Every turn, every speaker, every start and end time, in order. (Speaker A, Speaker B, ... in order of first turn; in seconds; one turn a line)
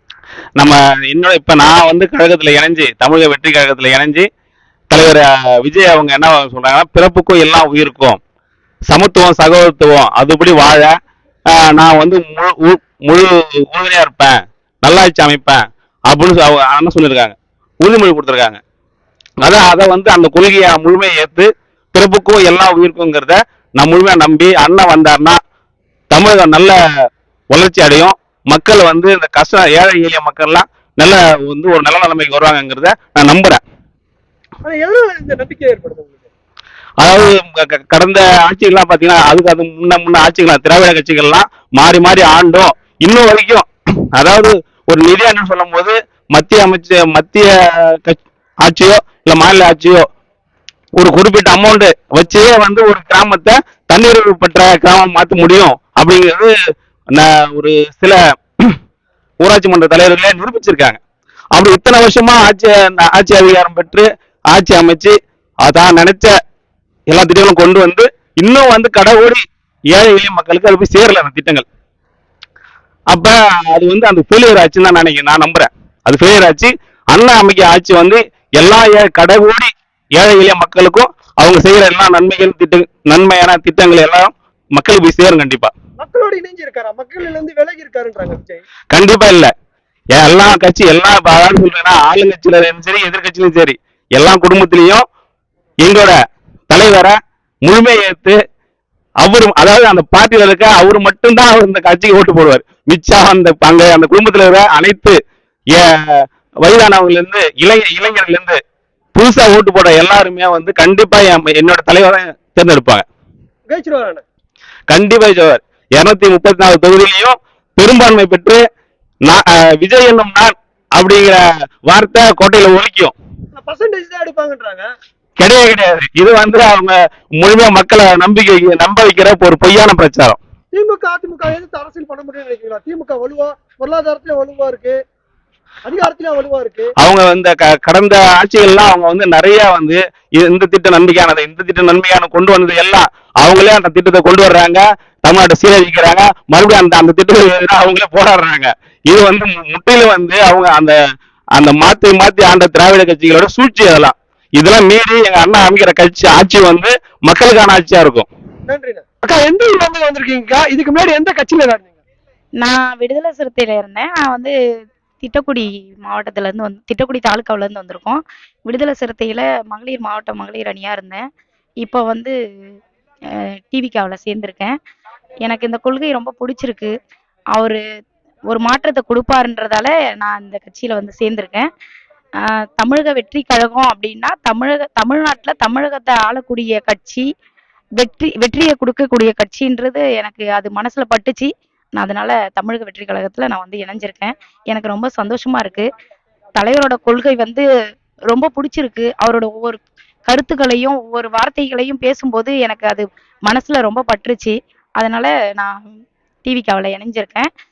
Speaker A: 0.6-4.3
Speaker A: 4.9-8.2
Speaker A: 8.9-10.9
Speaker A: 11.5-18.6
Speaker A: 19.4-25.4
Speaker A: 26.1-26.8
Speaker A: 27.5-33.6
Speaker B: 34.6-36.2
Speaker A: 37.0-50.0
Speaker A: 51.0-56.5
Speaker A: 57.1-58.8
Speaker A: 59.4-61.0
Speaker A: 61.5-66.3
Speaker A: 67.1-71.6
Speaker A: 73.1-85.7
Speaker B: 86.0-88.6
Speaker A: 88.9-89.5
Speaker A: 90.1-95.0
Speaker A: 95.8-96.1
Speaker A: 96.7-98.4
Speaker A: 99.2-105.2
Speaker A: 105.8-108.6
Speaker A: 109.1-113.0
Speaker B: 113.7-114.2
Speaker A: 114.9-118.6
Speaker A: 119.2-123.1
Speaker B: 123.5-124.8
Speaker A: 125.4-130.4
Speaker B: 130.7-134.9
Speaker B: 135.8-136.8
Speaker A: 137.0-150.9
Speaker A: 151.6-158.3
Speaker B: 158.7-159.0
Speaker C: 159.2-161.9
Speaker D: 162.6-164.5
Speaker D: 165.2-171.2
Speaker D: 171.8-172.3
Speaker D: 173.5-174.8
Speaker D: 175.4-176.9
Speaker D: 177.5-177.8
Speaker D: 178.5-181.7
Speaker D: 182.4-187.2
Speaker D: 188.0-195.9
Speaker D: 196.5-197.6
Speaker D: 198.3-205.8
Speaker D: 206.4-207.5